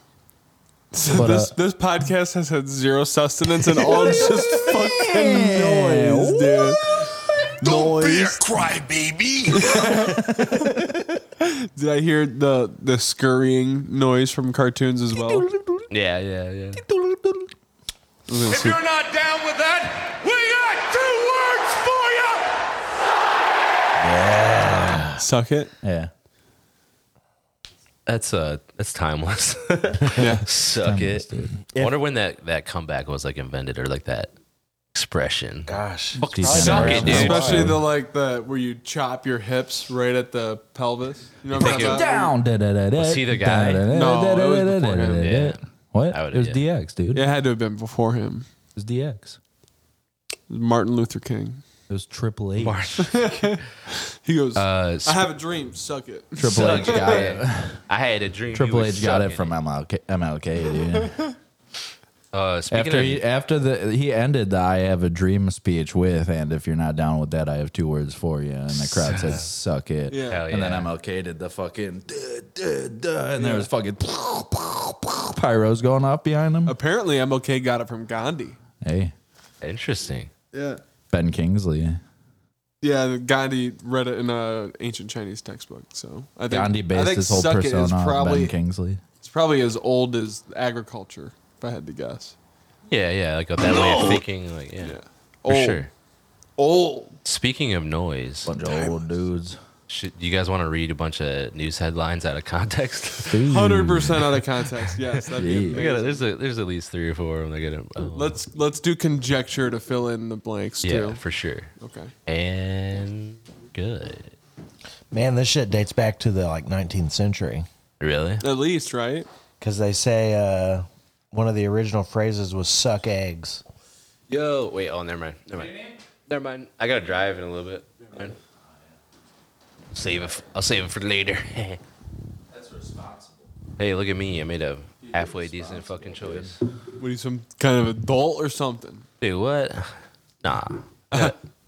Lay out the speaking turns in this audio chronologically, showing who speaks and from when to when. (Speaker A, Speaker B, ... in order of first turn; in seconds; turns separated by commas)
Speaker A: 0.9-7.1, Speaker B: 1.1-1.5, Speaker B: 3.8-7.1, Speaker C: 7.6-10.0, Speaker B: 7.6-8.5, Speaker A: 9.5-10.7, Speaker B: 10.1-10.8, Speaker A: 11.4-15.5, Speaker B: 15.2-15.8, Speaker D: 15.9-16.8, Speaker B: 16.8-17.5, Speaker A: 18.3-18.8, Speaker C: 18.4-22.5, Speaker E: 24.0-25.2, Speaker A: 25.2-25.7, Speaker B: 25.8-26.1, Speaker D: 28.1-34.3, Speaker A: 30.2-30.4, Speaker B: 30.6-31.6, Speaker D: 34.9-37.7, Speaker E: 35.7-37.8, Speaker B: 36.2-37.8, Speaker A: 36.5-42.3, Speaker D: 41.5-42.1, Speaker B: 41.5-47.3, Speaker D: 43.0-43.9, Speaker A: 43.9-45.2, Speaker D: 44.9-46.6, Speaker A: 47.1-48.5, Speaker B: 48.8-49.4, Speaker A: 50.5-51.6, Speaker B: 51.9-52.8, Speaker D: 52.6-53.6, Speaker A: 53.0-53.6, Speaker A: 54.2-57.3, Speaker D: 54.5-55.3, Speaker B: 56.4-57.8, Speaker D: 56.4-59.6, Speaker B: 58.5-61.2, Speaker D: 62.3-63.2, Speaker B: 62.7-76.8, Speaker D: 69.0-69.4, Speaker A: 70.1-70.4, Speaker D: 70.3-70.9, Speaker A: 73.4-73.7, Speaker A: 76.7-78.6, Speaker B: 78.8-79.1, Speaker D: 79.6-80.3, Speaker A: 80.5-80.8, Speaker B: 81.1-82.0, Speaker A: 82.8-88.5, Speaker B: 86.5-89.0, Speaker A: 89.2-92.3, Speaker D: 92.9-95.9, Speaker A: 93.7-94.2, Speaker A: 94.8-95.9, Speaker A: 96.6-97.2, Speaker D: 97.2-98.5, Speaker B: 98.5-99.6, Speaker D: 99.9-103.5, Speaker B: 103.3-104.4, Speaker A: 103.5-106.2, Speaker B: 105.3-105.9, Speaker D: 105.7-108.4, Speaker A: 108.1-111.2, Speaker D: 110.8-111.7, Speaker A: 111.8-112.1, Speaker D: 112.3-114.3, Speaker E: 115.1-117.7, Speaker D: 118.0-118.5, Speaker A: 118.4-119.3, Speaker E: 119.6-123.6, Speaker D: 124.3-128.4, Speaker D: 129.9-131.8, Speaker B: 132.5-133.5, Speaker D: 133.8-136.6, Speaker B: 135.1-136.5, Speaker A: 137.0-139.1, Speaker D: 139.2-141.3